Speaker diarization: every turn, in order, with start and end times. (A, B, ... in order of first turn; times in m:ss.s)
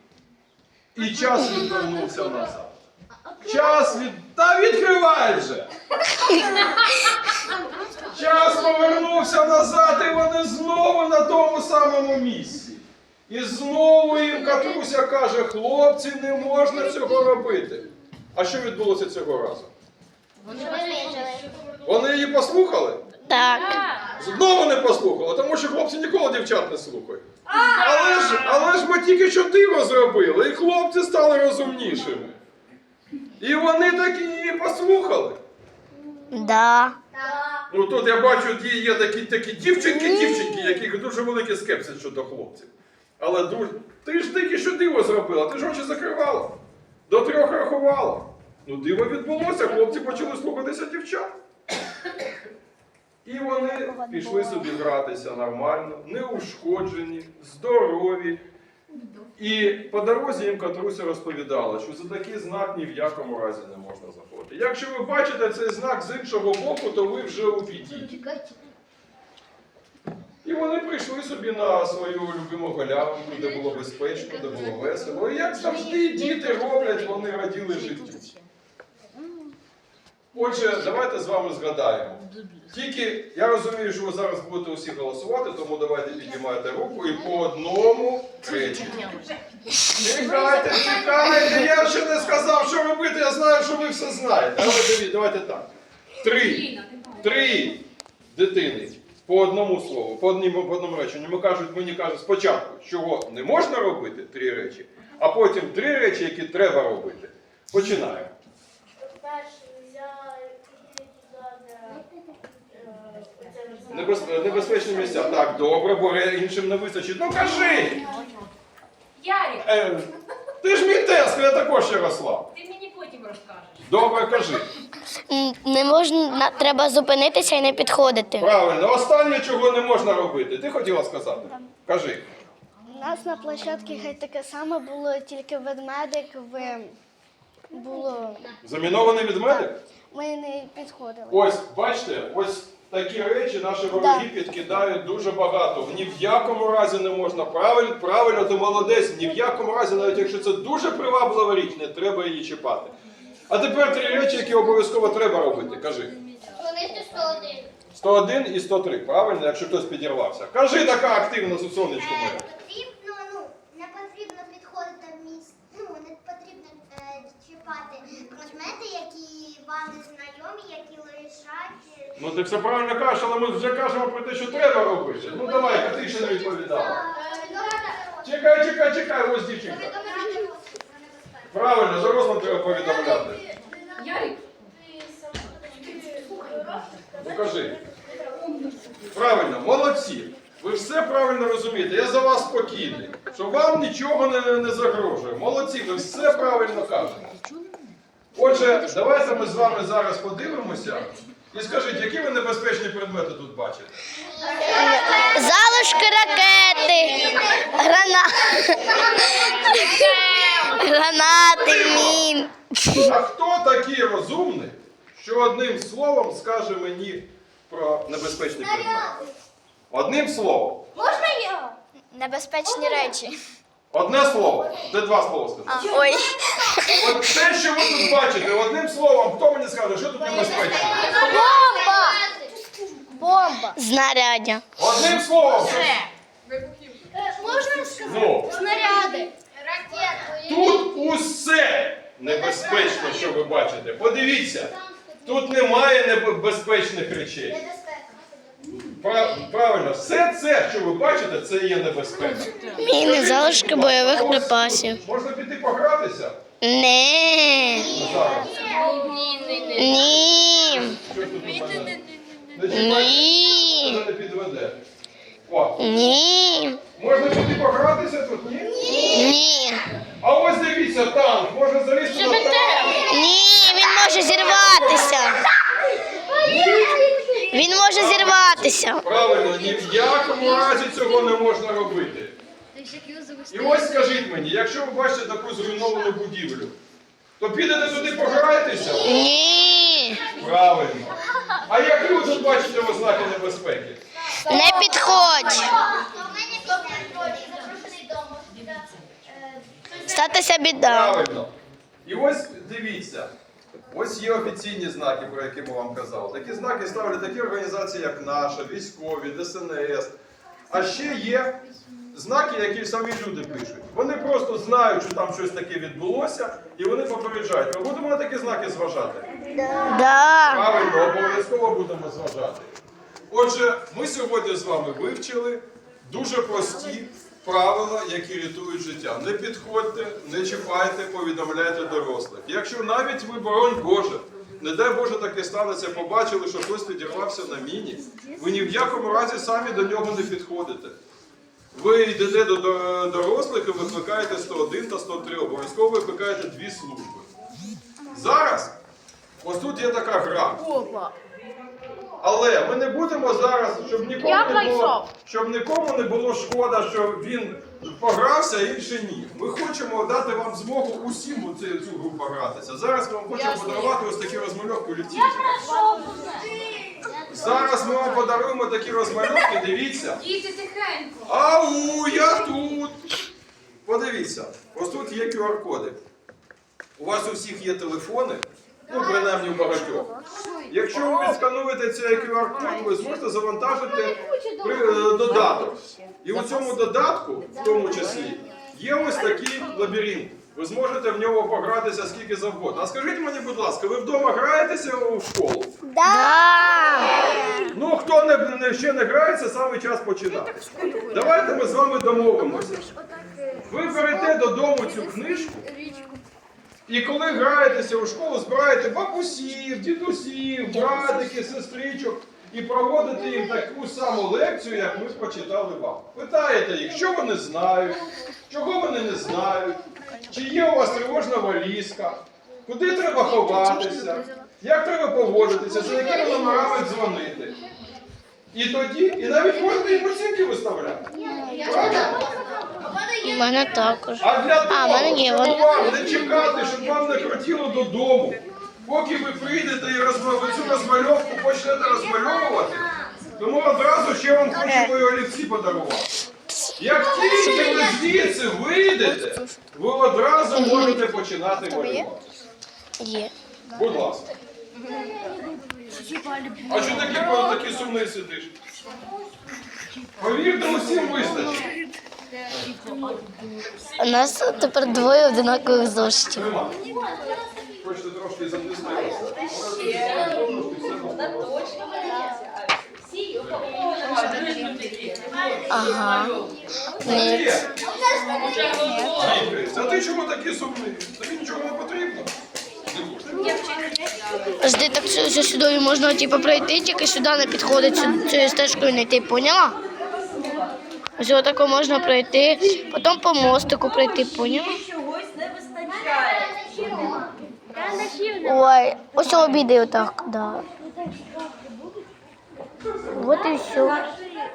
0:00.9-0:02.8 A
0:03.4-0:05.7 A
0:08.0-0:19.7 A
0:20.4-0:21.5 B
0:20.7-0:21.2 C
0:21.8-0:23.0 A
0:23.3-0:23.8 D
0:23.5-0:24.1 B
0:24.2-0:32.4 A
0:27.5-0:28.6 B
0:33.4-0:35.4 A
0:36.3-0:37.0 D
0:37.7-0:46.6 A
0:39.9-0:40.7 D
0:47.1-0:51.4 A
0:53.2-0:58.4 A
0:59.4-1:08.1 A
1:10.4-1:18.3 A
1:20.3-1:29.1 A
1:29.9-1:35.7 A
1:36.2-1:36.7 A
1:36.4-1:37.6 B
1:37.2-1:48.3 A
1:49.0-1:52.0 E
1:52.7-1:54.9 E
1:52.8-1:54.1 C
1:53.9-1:58.1 A
1:59.2-1:59.6 B
1:59.6-2:02.5 A
2:02.5-2:03.9 B
2:03.9-2:04.7 A
2:05.3-2:08.5 D
2:08.4-2:12.2 A
2:12.9-2:17.0 C
2:17.7-2:18.4 C
2:18.6-2:19.8 A
2:20.1-2:21.4 C
2:21.3-2:32.9 A
2:23.9-2:24.3 C
2:33.5-2:36.2 A
2:36.7-2:37.5 E
2:36.7-2:37.6 C
2:38.0-2:42.5 A
2:41.9-2:52.2 E
2:52.2-2:57.0 A
2:55.3-2:58.4 E
2:57.2-2:57.7 C
2:58.2-3:00.0 A
2:59.6-3:01.5 E
3:01.5-3:03.4 A
3:04.0-3:04.6 B
3:05.2-3:07.1 B
3:07.2-3:07.8 A
3:09.1-3:17.3 A
3:18.3-3:23.9 A
3:24.3-3:25.5 E
3:24.7-3:33.1 D
3:31.6-3:32.2 A
3:32.9-3:39.2 A
3:38.6-3:39.3 E
3:39.9-3:40.9 A
3:41.0-3:41.7 E
3:42.1-3:43.4 C
3:42.7-3:43.1 E
3:43.9-3:46.1 A
3:45.7-3:46.4 C
3:46.0-3:46.8 E
3:46.8-3:47.1 D
3:46.9-3:51.2 A
3:50.2-3:52.2 C
3:50.3-3:52.6 E
3:52.9-3:53.8 C
3:53.8-3:54.6 D
3:54.8-3:56.0 A
3:55.7-3:57.2 B
3:57.2-3:59.3 C
3:57.5-4:00.6 E
3:58.0-3:58.6 A
3:58.7-3:59.1 B
3:59.8-4:00.3 C
4:00.4-4:07.6 A
4:02.5-4:03.1 E
4:04.8-4:05.2 E
4:07.6-4:08.5 E
4:08.8-4:16.4 A
4:12.8-4:15.0 D
4:16.6-4:18.1 D
4:17.8-4:18.6 A
4:18.1-4:19.1 E
4:18.6-4:20.3 B
4:19.7-4:21.0 D
4:20.9-4:22.0 A
4:21.7-4:22.0 B
4:22.5-4:24.8 A
4:22.7-4:24.0 D
4:25.5-4:25.8 A
4:25.8-4:26.8 D
4:27.0-4:29.3 A
4:28.9-4:29.2 E
4:29.0-4:29.8 D
4:30.2-4:33.1 A
4:32.1-4:33.1 B
4:33.0-4:35.4 D
4:34.1-4:35.3 A
4:36.3-4:37.1 A
4:37.5-4:39.0 D
4:37.6-4:42.4 A
4:43.5-4:46.8 A
4:47.4-4:49.2 A
4:49.0-4:50.2 D
4:50.3-4:54.0 A
4:54.4-4:55.8 D
4:54.6-4:55.9 C
4:54.6-4:58.3 E
4:56.8-4:58.6 C
5:00.0-5:01.2 D
5:00.8-5:01.5 A
5:02.0-5:03.3 A
5:03.9-5:10.2 A
5:10.7-5:11.6 A
5:12.1-5:19.2 A
5:19.6-5:20.7 D
5:20.5-5:22.7 A
5:23.3-5:41.0 A
5:41.7-5:47.3 A
5:48.1-5:48.7 A
5:49.4-5:50.6 A
5:50.7-5:51.0 B
5:50.8-5:51.1 C
5:52.2-6:05.6 A
5:54.4-5:54.9 C
6:03.5-6:03.8 B
6:05.3-6:06.7 B
6:05.9-6:07.6 E
6:07.3-6:10.2 A
6:10.1-6:11.3 B
6:11.2-6:13.0 A
6:13.8-6:16.0 A
6:17.0-6:20.1 A
6:20.7-6:35.7 A
6:36.0-6:37.6 D
6:37.7-6:42.8 A
6:43.7-6:45.7 A
6:46.9-7:07.6 A
7:08.5-7:12.3 A
7:11.2-7:13.2 C
7:11.2-7:12.3 E
7:13.2-7:15.8 D
7:14.2-7:26.2 A
7:22.1-7:23.2 E
7:24.6-7:24.9 D
7:26.8-7:32.3 A
7:27.1-7:28.1 D
7:29.0-7:29.6 D
7:30.5-7:31.0 D
7:33.0-7:33.3 D
7:33.7-7:34.3 A
7:36.7-7:38.5 A
7:40.2-7:41.7 A
7:44.0-7:46.5 D
7:46.4-7:46.8 A
7:47.8-7:51.9 A
7:49.7-7:50.1 B
7:51.9-7:52.5 C
7:53.4-7:53.7 A
7:53.6-7:55.7 B
7:55.7-7:56.4 D
7:57.0-7:57.5 D
7:57.0-7:57.7 A
7:57.9-7:59.4 B
7:58.3-7:58.7 E
7:58.7-7:59.2 C
7:59.1-8:02.3 A
8:02.9-8:03.5 A
8:03.4-8:04.5 B
8:04.6-8:09.8 D
8:11.2-8:14.8 D
8:15.9-8:18.1 E
8:18.4-8:20.7 D
8:22.8-8:23.4 A
8:23.1-8:24.0 D